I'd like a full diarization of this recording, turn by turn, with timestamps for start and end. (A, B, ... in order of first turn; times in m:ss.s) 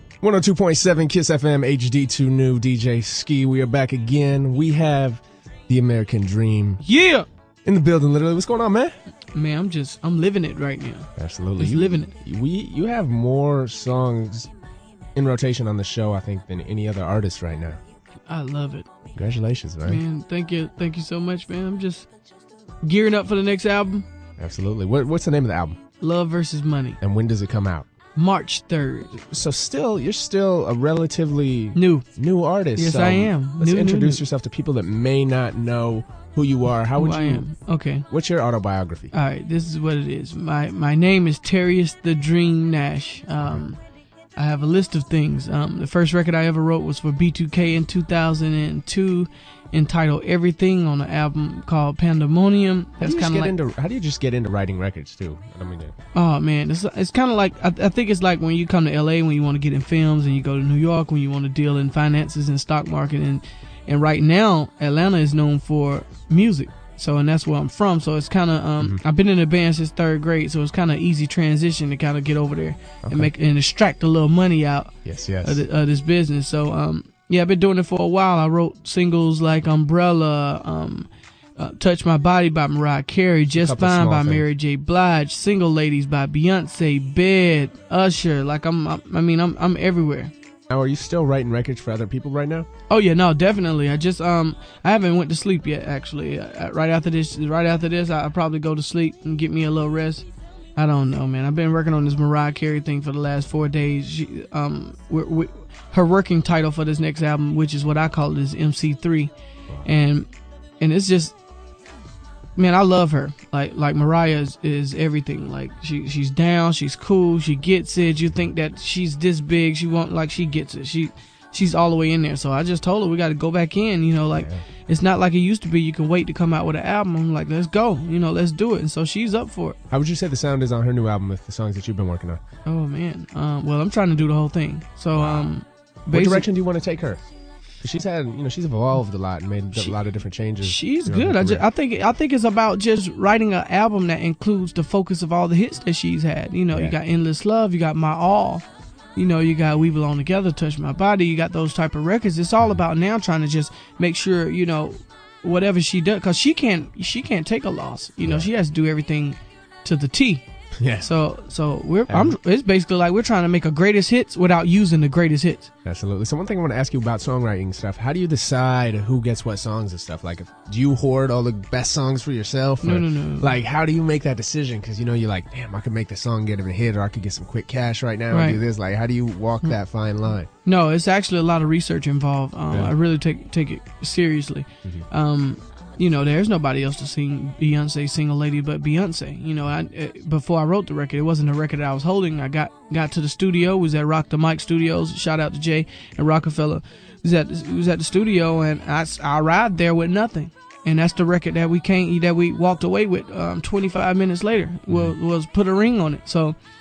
0:00.2-0:06.8 A
0:06.8-0:07.3 B
0:07.6-0:08.9 A
0:09.3-0:12.1 B
0:11.2-0:14.5 A
0:15.1-0:17.8 A
0:18.3-0:18.9 B
0:19.1-0:20.0 A
0:19.8-0:22.1 B
0:22.8-0:24.1 B
0:24.4-0:25.8 A
0:26.0-0:27.0 B
0:27.0-0:27.9 A
0:28.2-0:29.2 B
0:29.2-0:37.4 A
0:31.7-0:32.1 B
0:32.7-0:34.2 B
0:36.9-0:38.1 B
0:38.1-0:39.1 A
0:39.1-0:43.8 B
0:44.3-0:53.6 B
0:53.0-0:55.9 A
0:56.1-1:30.3 B
1:13.0-1:13.3 A
1:15.0-1:15.6 A
1:23.5-1:24.5 A
1:30.7-1:32.7 A
1:32.9-1:40.2 B
1:40.8-1:49.3 B
1:49.8-1:50.3 B
1:50.8-1:51.4 B
1:52.6-2:09.8 B
2:04.3-2:04.6 A
2:09.9-2:12.4 A
2:12.6-2:16.5 B
2:15.1-2:15.5 A
2:16.1-2:17.2 A
2:17.8-2:21.7 A
2:20.6-2:40.4 B
2:38.2-2:38.5 A
2:40.8-2:41.1 A
2:41.0-2:45.7 B
2:42.1-2:42.4 A
2:45.8-3:00.5 A
2:52.8-2:53.6 B
2:58.3-2:58.6 B
3:00.6-3:26.6 B
3:24.9-3:25.1 A